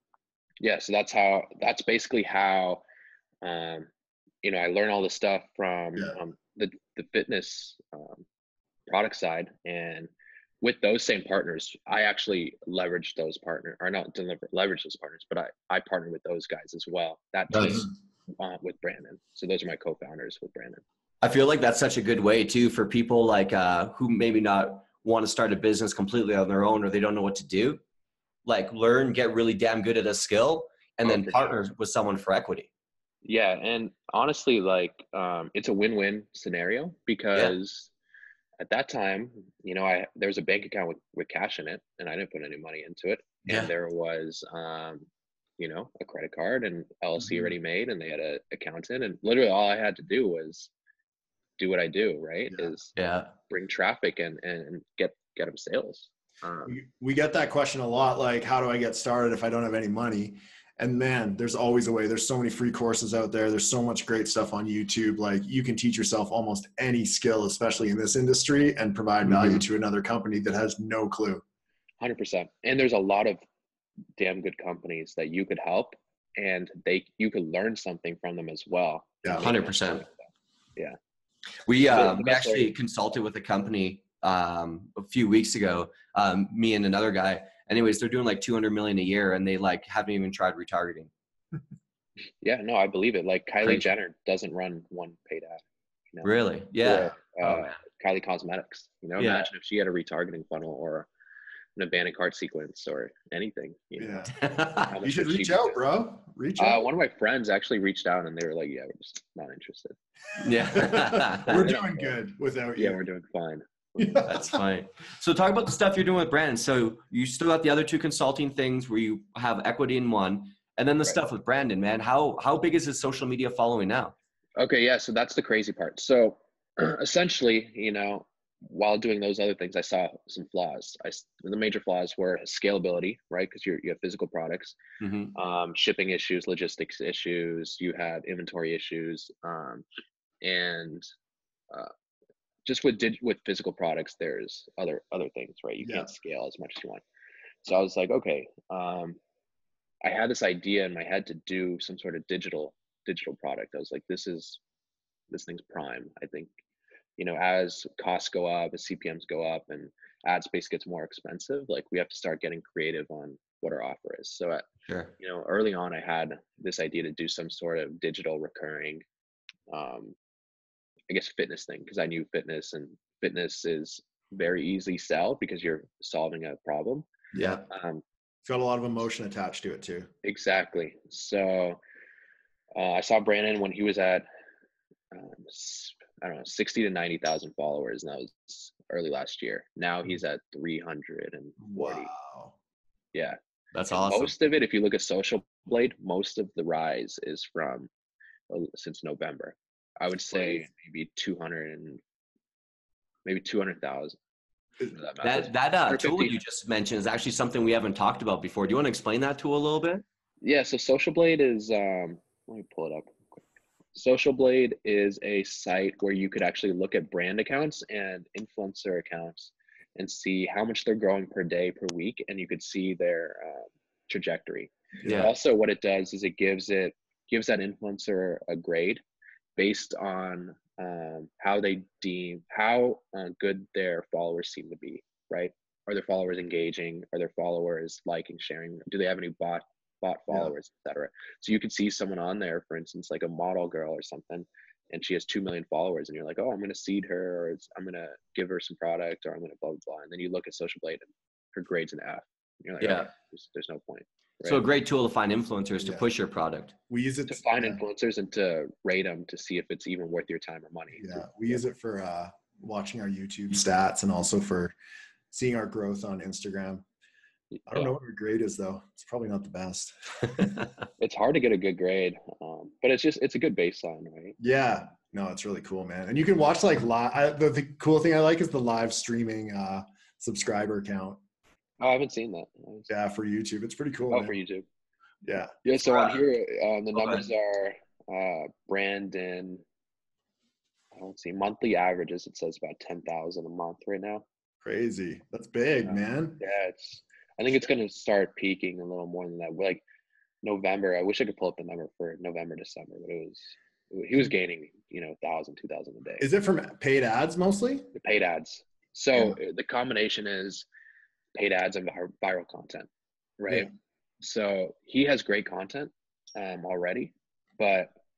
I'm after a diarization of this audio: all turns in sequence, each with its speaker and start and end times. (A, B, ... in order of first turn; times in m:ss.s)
0:00.6-0:02.8 A
0:03.4-0:03.9 A
0:04.4-0:08.2 A
0:08.9-0:10.1 A
0:10.6-0:20.8 A
0:17.5-0:17.8 B
0:21.2-0:27.8 B
0:28.4-0:32.7 B
0:31.0-0:31.7 A
0:33.2-0:37.9 A
0:38.6-0:45.1 A
0:45.6-0:50.7 A
0:47.2-0:47.5 C
0:51.6-0:52.9 A
0:53.0-0:53.3 B
0:53.5-0:56.8 A
0:56.7-1:11.4 C
1:09.2-1:09.6 B
1:12.0-1:13.4 A
1:14.2-1:21.0 A
1:19.4-1:20.0 B
1:21.6-1:31.1 B
1:21.9-1:22.7 A
1:32.4-1:35.6 A
1:36.2-1:37.8 B
1:36.8-1:41.1 A
1:39.2-1:39.5 B
1:41.8-1:44.3 A
1:44.0-1:44.3 C
1:44.3-1:44.9 B
1:44.9-1:45.8 A
1:45.0-1:46.8 C
1:46.6-1:50.0 A
1:50.4-1:51.7 B
1:50.7-1:53.0 C
1:51.6-1:52.1 A
1:52.8-1:54.4 A
1:54.0-1:54.6 C
1:54.3-2:04.1 B
2:04.6-2:14.8 A
2:15.0-2:15.3 B
2:15.3-2:19.8 A
2:20.4-2:21.0 A
2:22.6-2:27.0 A
2:25.8-2:26.1 C
2:27.6-2:29.2 A
2:30.0-2:34.6 A
2:35.3-2:36.5 A
2:37.2-2:44.7 A
2:45.2-2:49.0 A
2:49.7-2:50.2 A
2:51.1-2:57.1 A
2:57.3-2:57.6 C
2:57.7-2:58.0 A
2:58.4-3:00.1 C
3:00.2-3:01.8 A
3:02.7-3:04.2 A
3:05.1-3:12.1 A
3:11.6-3:12.5 C
3:13.7-3:14.3 B
3:13.9-3:17.9 A
3:18.5-3:22.0 A
3:20.3-3:20.6 C
3:23.2-3:24.2 A
3:24.9-3:26.4 A
3:25.2-3:30.0 B
3:30.4-3:33.4 A
3:33.9-3:49.0 A
3:45.0-3:45.2 C
3:45.0-3:45.3 B
3:49.6-4:14.6 A
4:12.8-4:13.1 B
4:14.4-4:16.7 B
4:15.8-4:16.1 C
4:16.9-4:17.8 C
4:17.3-4:21.6 A
4:21.0-4:24.7 C
4:25.3-4:26.8 C
4:27.5-4:27.9 A
4:27.7-4:30.6 C
4:31.0-4:34.4 A
4:34.4-4:41.2 C
4:41.8-4:42.9 A
4:42.9-4:44.4 C
4:44.1-4:44.6 A
4:45.2-4:45.5 C
4:45.6-4:49.6 A
4:45.8-4:46.2 B
4:47.0-4:47.2 B
4:50.9-4:54.2 A
4:54.6-4:56.4 C
4:55.8-4:59.8 A
5:00.4-5:06.2 A
5:06.2-5:07.9 C
5:07.9-5:10.7 A
5:11.3-5:12.9 A
5:13.4-5:17.9 A